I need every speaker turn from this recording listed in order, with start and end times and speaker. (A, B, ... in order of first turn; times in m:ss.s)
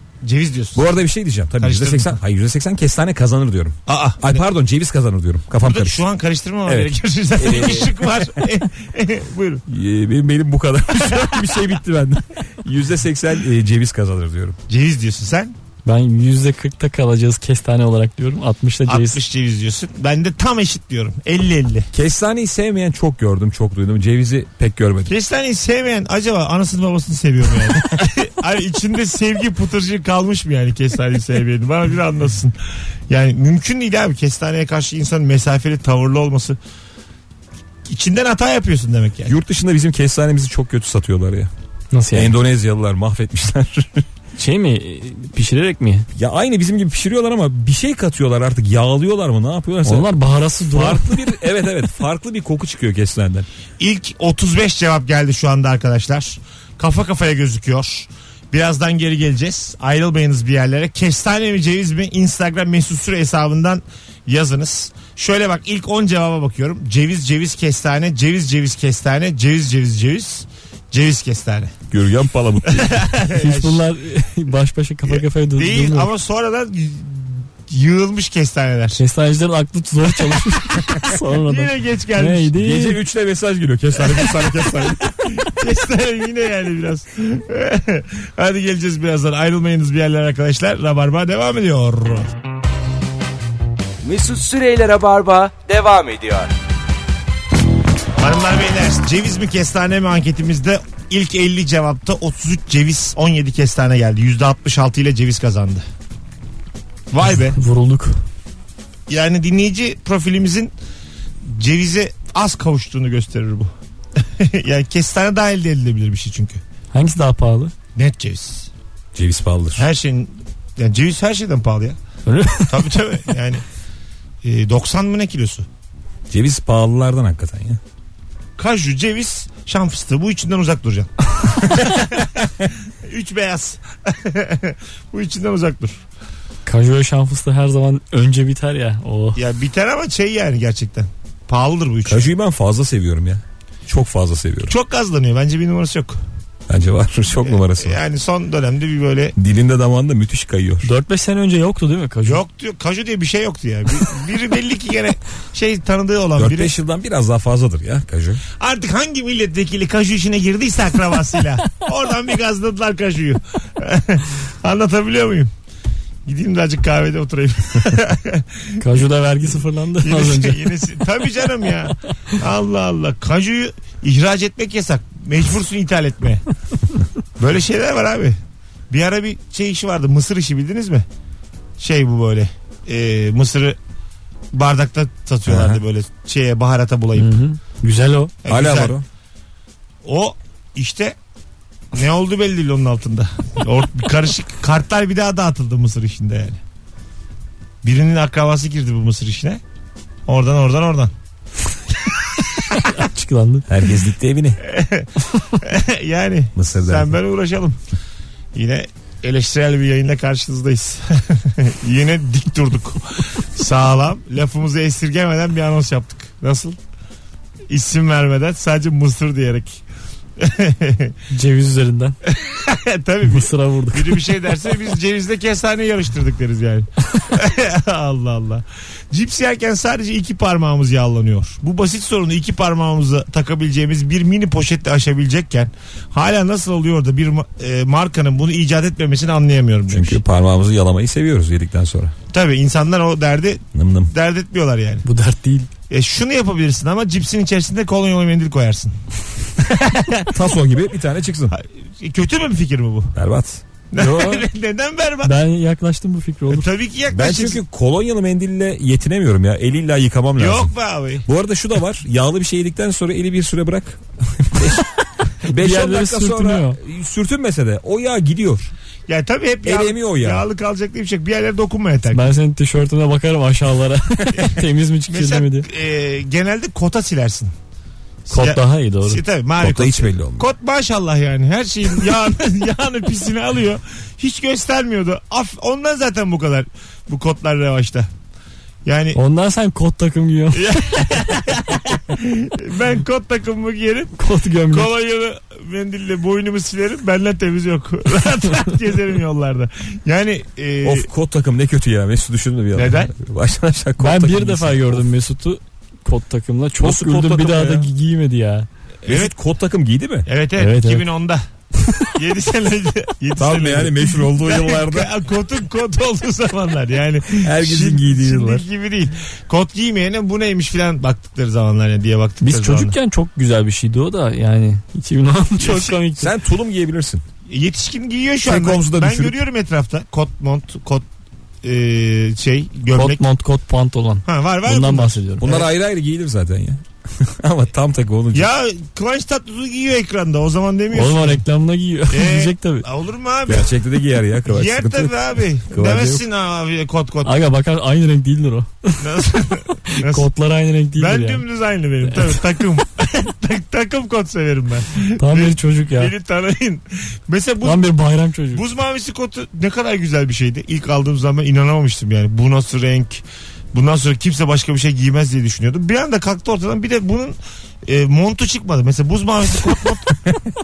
0:00.2-0:00.9 A
0:00.8-0:06.0 B
0:01.6-0:02.2 A
0:03.9-0:04.4 A
0:05.6-0:09.6 A
0:06.7-0:08.3 B
0:09.7-0:14.6 B
0:11.1-0:11.6 A
0:14.7-0:15.5 A
0:15.8-0:19.2 C
0:18.9-0:21.9 A
0:21.9-0:25.1 B
0:25.1-0:32.6 A
0:33.1-0:36.6 A
0:37.9-0:39.4 A
0:39.2-0:41.5 B
0:41.9-0:42.4 C
0:42.1-0:44.0 B
0:44.4-0:46.1 C
0:46.2-0:50.2 B
0:49.8-0:51.3 C
0:50.7-0:53.5 B
0:53.8-1:11.7 A
1:11.9-1:13.0 B
1:12.6-1:13.8 A
1:13.3-1:16.1 C
1:15.1-1:19.0 A
1:19.0-1:23.0 C
1:20.7-1:22.5 A
1:22.6-1:25.1 B
1:24.0-1:32.3 A
1:34.0-1:36.5 D
1:38.2-1:45.8 A
1:47.1-1:47.6 A
1:47.5-1:48.2 C
1:49.1-1:50.7 A
1:51.4-1:56.6 A
1:56.9-1:57.7 C
1:58.0-1:58.7 A
1:59.2-1:59.9 B
1:59.8-2:02.0 A
2:02.2-2:02.9 C
2:02.7-2:03.6 A
2:04.4-2:05.7 A
2:06.3-2:07.8 B
2:08.6-2:16.0 A
2:16.6-2:19.4 C
2:19.4-2:22.3 A
2:22.0-2:24.8 B
2:24.7-2:26.2 A
2:26.7-2:28.0 B
2:27.4-2:29.4 A
2:29.4-2:30.9 B
2:30.8-2:32.4 C
2:32.2-2:36.7 A
2:36.4-2:38.4 B
2:38.6-2:45.5 A
2:46.2-2:48.8 A
2:48.8-2:50.7 C
2:50.0-2:56.4 A
2:57.4-2:58.4 A
2:58.9-3:01.0 A
3:01.8-3:03.8 A
3:04.5-3:07.4 A
3:05.5-3:05.8 B
3:07.2-3:08.3 C
3:08.4-3:09.0 A
3:08.5-3:09.0 B
3:10.0-3:11.2 A
3:11.9-3:16.6 A
3:17.8-3:19.6 A
3:20.3-3:21.1 A
3:22.7-3:23.7 C
3:23.7-3:24.6 B
3:24.6-3:27.8 A
3:26.6-3:27.2 B
3:28.5-3:36.8 A
3:37.7-3:39.8 A
3:40.4-3:41.2 A
3:41.3-3:42.2 C
3:42.2-4:00.2 A
3:43.2-3:44.3 C
3:59.9-4:02.1 B
4:02.3-4:05.0 A
4:03.8-4:04.1 B
4:05.0-4:05.7 C
4:05.9-4:08.9 A
4:09.6-4:10.4 A
4:10.3-4:11.5 B
4:11.5-4:13.2 A
4:13.2-4:13.6 B
4:13.9-4:15.4 A
4:14.0-4:14.5 C
4:15.2-4:16.7 C
4:16.5-4:17.6 A
4:17.1-4:20.7 B
4:20.4-4:21.3 A
4:21.2-4:24.8 B
4:25.4-4:28.7 B
4:25.5-4:26.8 C
4:29.1-4:32.2 A
4:29.6-4:30.5 B
4:32.1-4:35.7 C
4:34.3-4:37.5 A
4:38.2-4:48.1 A
4:38.3-4:39.2 C
4:39.6-4:40.5 B
4:48.8-4:49.2 A
4:49.2-4:50.8 C
4:50.5-4:54.2 A
4:54.2-4:54.9 C
4:54.7-5:01.1 A
5:00.8-5:05.0 B
5:02.8-5:03.1 A
5:04.0-5:08.7 C
5:06.8-5:07.9 B
5:09.0-5:09.3 A
5:09.0-5:10.3 B
5:10.2-5:11.4 A
5:10.6-5:11.0 C
5:12.1-5:23.0 A
5:13.4-5:15.1 B
5:17.3-5:18.7 B
5:22.4-5:26.3 C
5:25.6-5:25.9 A
5:26.2-5:27.2 B
5:27.5-5:31.0 A
5:28.4-5:29.4 B
5:31.6-5:33.2 A
5:32.9-5:35.5 C
5:34.2-5:35.7 A
5:35.4-5:38.5 B
5:38.3-5:41.4 A
5:40.9-5:42.9 C
5:42.1-5:43.7 A
5:43.5-5:46.2 B
5:44.4-5:47.4 A
5:47.2-5:49.0 C
5:49.0-5:50.3 A
5:49.9-5:51.4 C
5:51.0-5:57.9 A
5:52.1-5:52.4 C
5:55.2-5:56.1 C
5:57.6-5:58.6 C
5:58.5-6:03.2 A
6:03.7-6:10.4 A